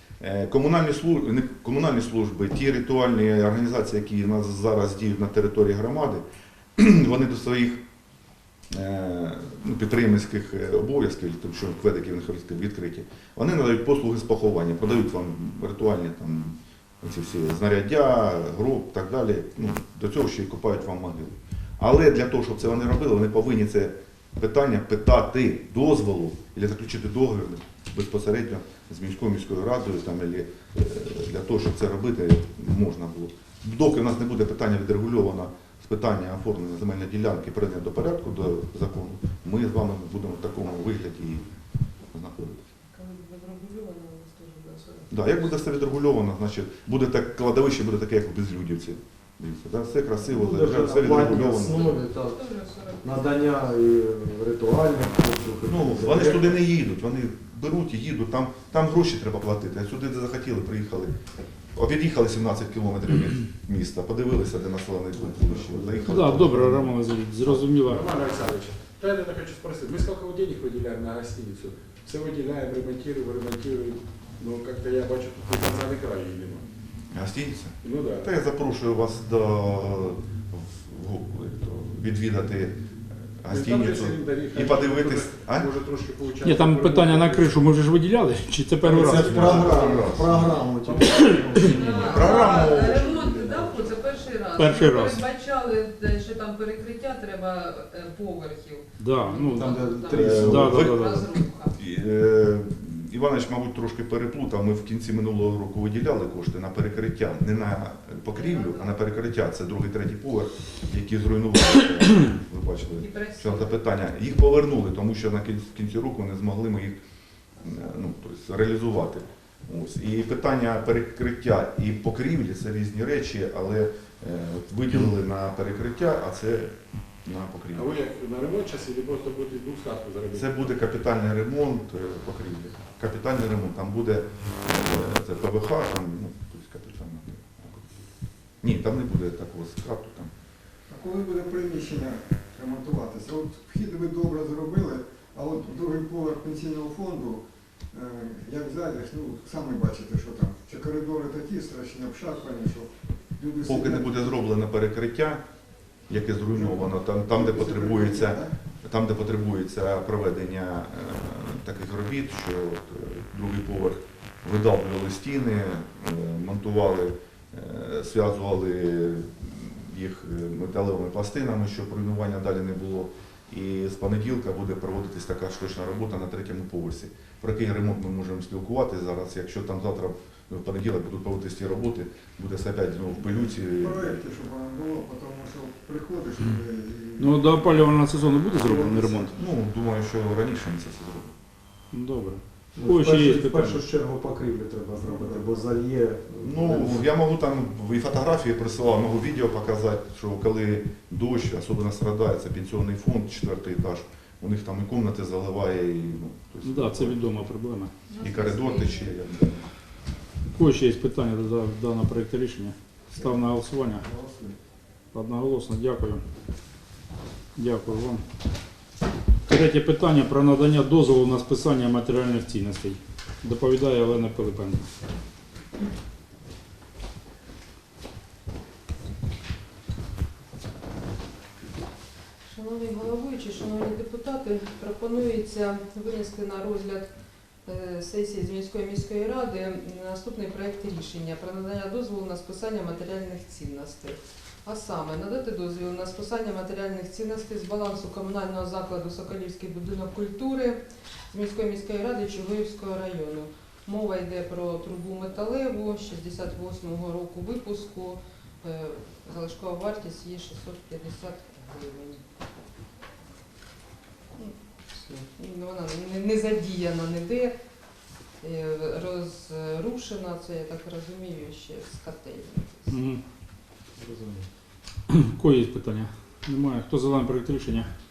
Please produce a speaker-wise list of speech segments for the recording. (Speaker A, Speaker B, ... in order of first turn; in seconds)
Speaker A: 0.2-6.2, 6.8-7.8, 8.7-41.5, 42.1-42.6, 45.1-51.9, 55.7-61.1, 61.7-66.8, 77.1-85.7, 89.1-90.6, 92.0-93.2, 100.1-101.2, 101.7-117.0, 117.6-126.7, 127.2-128.0, 130.3-137.9, 138.6-140.3, 153.7-155.4, 156.1-184.2, 189.3-191.3, 196.4-207.2, 208.2-209.7
Speaker B: 42.9-45.9, 51.2-53.7, 91.6-101.8, 108.3-108.9, 113.0-113.7, 208.1-209.1, 232.5-237.1, 237.7-250.8, 251.3-262.2, 264.4-267.6, 268.4-273.0
Speaker C: 50.2-52.4, 53.0-56.6, 65.1-67.0, 88.8-92.4, 99.5-100.9, 192.8-197.1, 274.0-274.5
Speaker D: 66.0-68.0, 86.4-90.1, 91.0-92.0, 94.6-95.2, 99.0-101.3, 187.2-189.3, 191.9-193.8, 206.6-207.9, 210.6-214.1, 215.1-216.2, 217.6-218.2, 219.5-224.9, 272.9-273.2, 275.1-277.9
Speaker E: 67.8-76.6, 77.8-78.3, 83.5-87.7, 89.0-90.2, 90.8-93.9, 127.7-130.7
Speaker F: 140.9-154.4, 156.5-158.5, 183.2-187.9, 188.6-189.5, 195.1-195.6, 213.2-214.6